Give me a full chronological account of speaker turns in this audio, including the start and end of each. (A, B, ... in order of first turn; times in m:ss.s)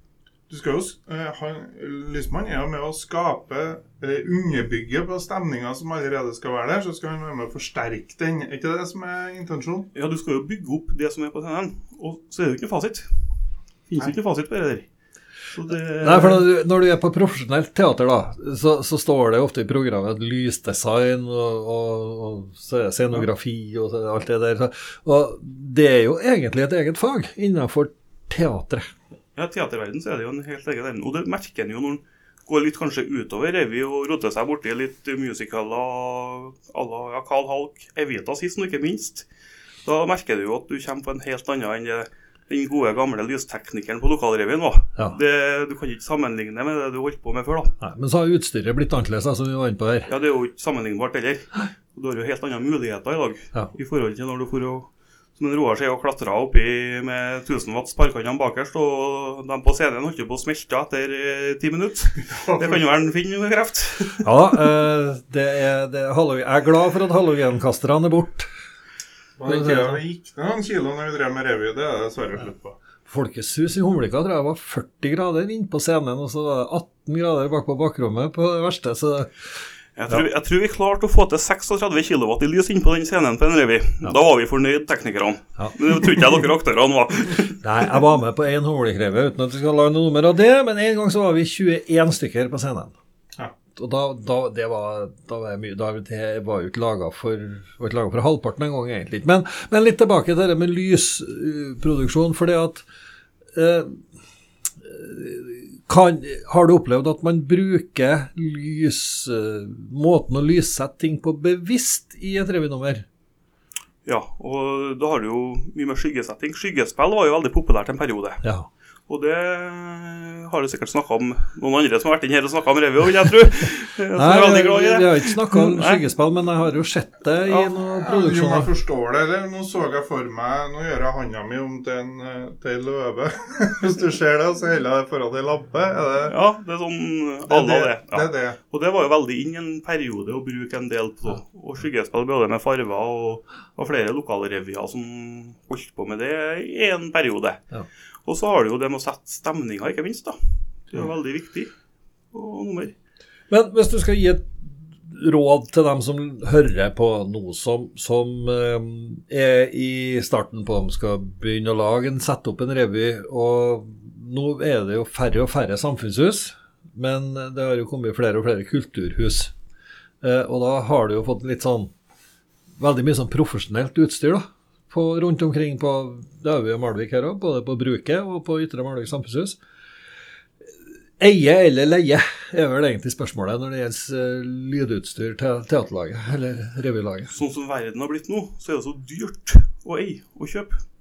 0:00.5-0:09.9 A
0:09.9-0:13.2 B
0:13.9-0:14.9 B
0:15.5-0:16.4 B
0:16.0-0:28.9 C
0:29.4-0:39.3 B
0:39.8-0:47.7 B
0:47.8-0:50.1 C
0:50.1-1:04.3 B
1:02.2-1:02.8 A
1:04.2-1:08.5 C
1:09.4-1:12.8 A
1:09.4-1:10.0 C
1:13.0-1:19.6 C
1:20.0-1:28.0 B
1:27.6-1:32.9 C
1:33.7-1:42.8 C
1:43.5-1:44.1 C
1:44.8-1:53.0 C
1:54.0-1:58.4 B
1:58.4-1:58.7 C
1:59.1-2:06.0 B
2:04.1-2:08.7 C
2:07.5-2:16.4 A
2:16.3-2:27.6 B
2:17.5-2:18.6 A
2:28.2-2:30.4 B
2:30.9-2:31.7 B
2:32.3-2:32.9 B
2:33.5-2:49.5 C
2:50.2-2:51.9 C
2:52.8-2:59.6 C
3:01.2-3:07.3 C
3:07.3-3:10.8 B